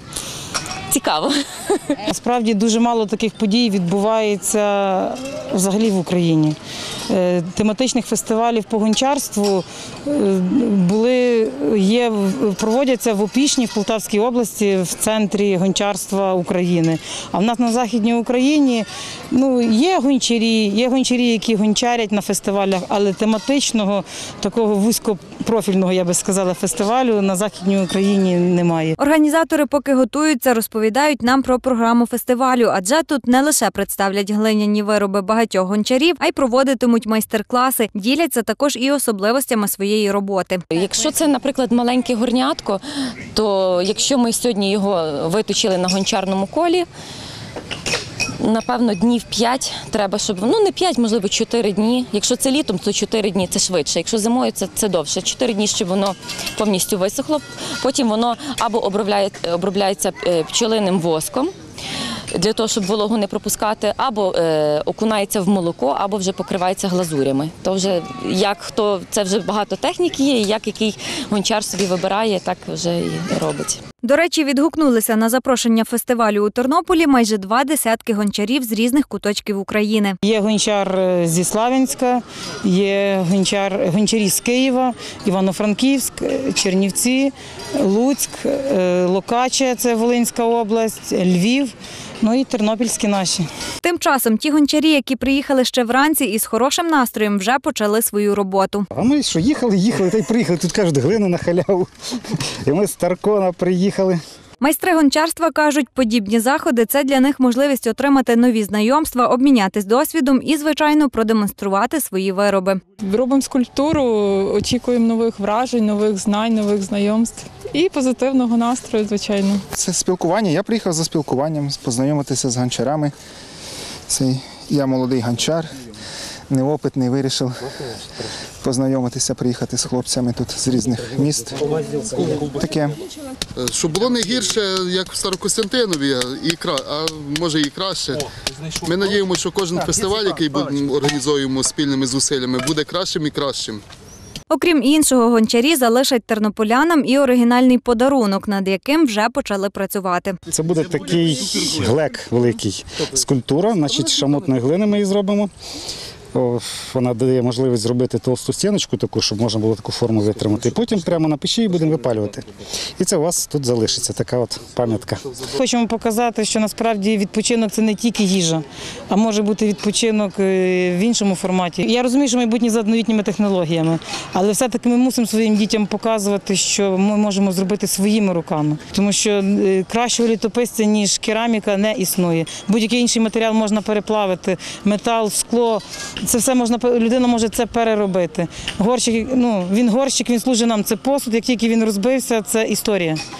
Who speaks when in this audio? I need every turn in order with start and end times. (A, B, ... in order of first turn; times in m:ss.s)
0:00.9-0:01.9 A
0:02.1-0:06.6 B
0:07.1-0:28.9 B
0:29.0-0:40.6 C
0:40.7-0:42.8 A
0:43.3-0:46.9 A
0:48.4-1:01.5 A
1:02.3-1:13.8 A
1:14.0-1:20.2 C
1:20.2-1:33.5 B
1:33.8-1:38.9 C
1:38.9-1:44.2 D
1:44.6-1:52.8 C
1:53.0-1:59.6 E
1:59.7-2:03.1 F
2:04.1-2:05.7 F
2:06.5-2:07.7 F
2:08.6-2:11.6 F
2:12.2-2:13.0 F
2:13.6-2:18.2 G
2:18.8-2:23.8 G
2:24.5-2:30.4 C
2:30.5-2:35.5 D
2:36.3-2:42.5 D
2:43.0-2:45.2 D
2:45.5-3:13.2 B